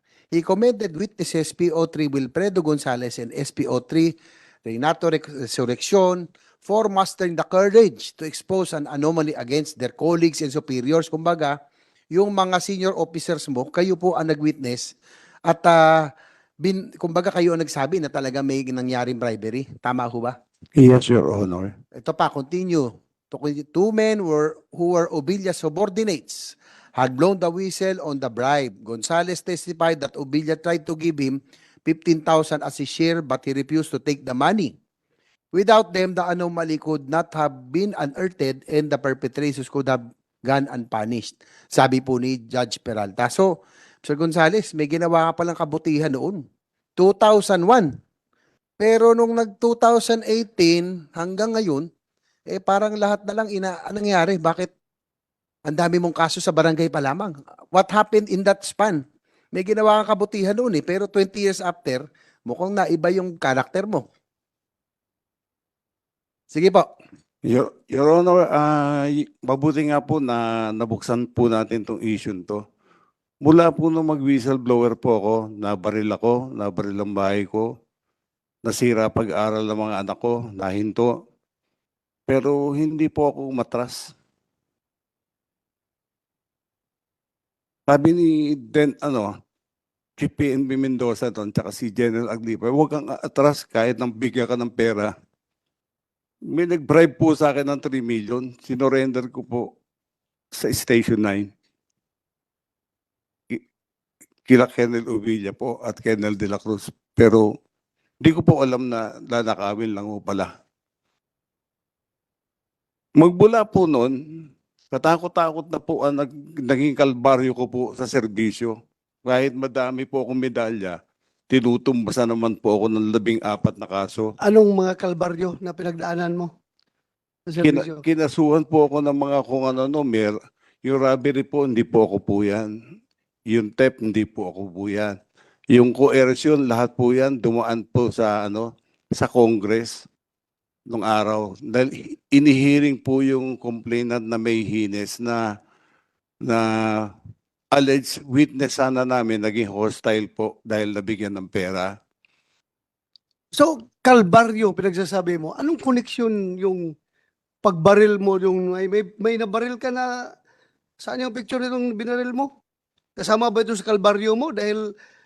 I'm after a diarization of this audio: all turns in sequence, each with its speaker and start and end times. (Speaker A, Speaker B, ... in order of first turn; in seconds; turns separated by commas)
Speaker A: 0.3-11.6, Speaker A: 12.1-14.9, Speaker A: 15.5-16.1, Speaker A: 16.6-20.4, Speaker B: 20.8-21.7, Speaker A: 22.0-34.7, Speaker A: 35.5-43.5, Speaker A: 44.0-46.4, Speaker A: 47.0-47.9, Speaker A: 48.8-51.9, Speaker A: 52.5-54.7, Speaker A: 55.7-64.0, Speaker A: 66.5-66.9, Speaker B: 67.4-72.6, Speaker B: 73.4-77.7, Speaker B: 78.7-81.1, Speaker B: 82.3-84.1, Speaker B: 87.9-89.3, Speaker B: 90.2-95.1, Speaker B: 96.5-99.7, Speaker B: 100.5-101.5, Speaker B: 104.5-107.5, Speaker B: 108.2-110.5, Speaker B: 113.2-114.1, Speaker B: 114.9-121.0, Speaker B: 121.5-124.3, Speaker C: 124.4-126.5, Speaker C: 127.5-128.0, Speaker B: 127.6-132.7, Speaker B: 133.5-135.2, Speaker B: 135.7-140.1, Speaker B: 140.9-145.4, Speaker B: 146.4-147.1, Speaker B: 147.7-151.9, Speaker C: 153.5-156.8, Speaker C: 157.6-160.1, Speaker C: 161.0-162.5, Speaker C: 163.2-164.8